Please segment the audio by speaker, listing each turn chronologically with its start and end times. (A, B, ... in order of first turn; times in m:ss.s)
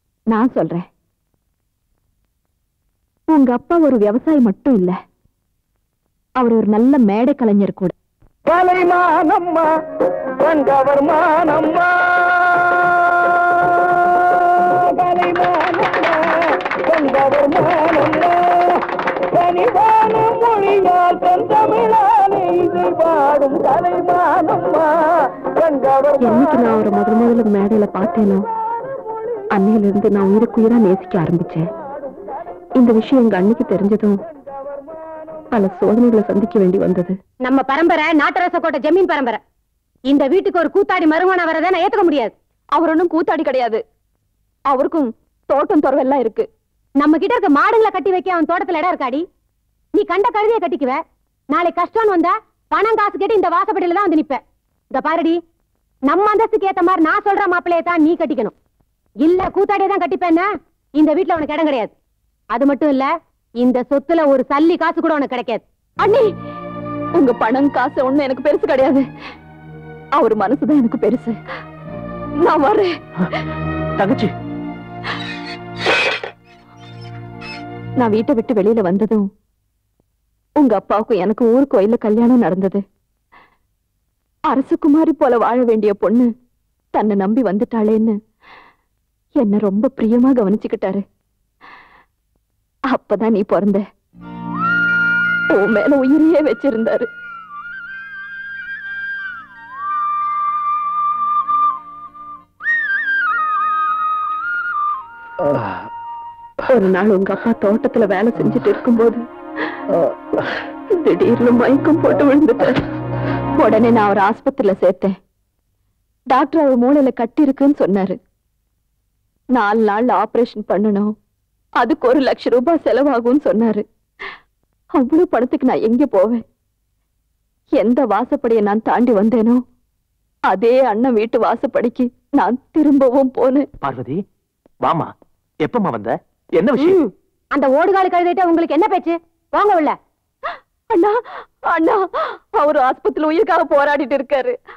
0:00.3-0:00.8 A
0:03.3-0:05.0 A
0:06.4-0:07.9 A
0:08.5-0:09.6 B
0:10.5-0:12.3 B
0:17.0-0:18.1 B
0:19.6-0:22.6 B
0:26.2-0:28.4 A
0:29.5-0:31.7 A
0:32.8-0:34.2 A
0:35.5-0:37.1 A
0:37.4-0:39.4 C
0:40.1-0:42.3 C
0:42.7-0:43.8 A
0:44.7-0:46.4 A
0:47.0-0:49.2 C
0:50.0-0:51.0 C
0:51.5-0:54.4 C
0:54.9-0:55.4 C
0:56.1-0:58.5 C
0:59.2-1:01.9 C
1:02.5-1:03.1 C
1:03.6-1:05.6 C
1:06.0-1:06.3 A
1:07.2-1:09.0 A
1:10.2-1:11.3 A
1:12.4-1:12.9 A
1:18.0-1:19.3 A
1:20.6-1:22.8 A
1:24.5-1:26.3 A
1:26.9-1:28.1 A
1:29.4-1:31.0 A
1:32.9-1:33.8 A
1:35.5-1:37.1 A
1:46.7-1:49.2 A
1:50.9-1:52.8 A
1:53.6-1:55.1 A
1:56.3-1:58.2 A
1:59.5-2:01.1 A
2:01.8-2:03.8 A
2:05.0-2:06.4 A
2:07.8-2:09.6 A
2:10.5-2:13.7 A
2:16.8-2:20.0 C
2:20.9-2:24.6 A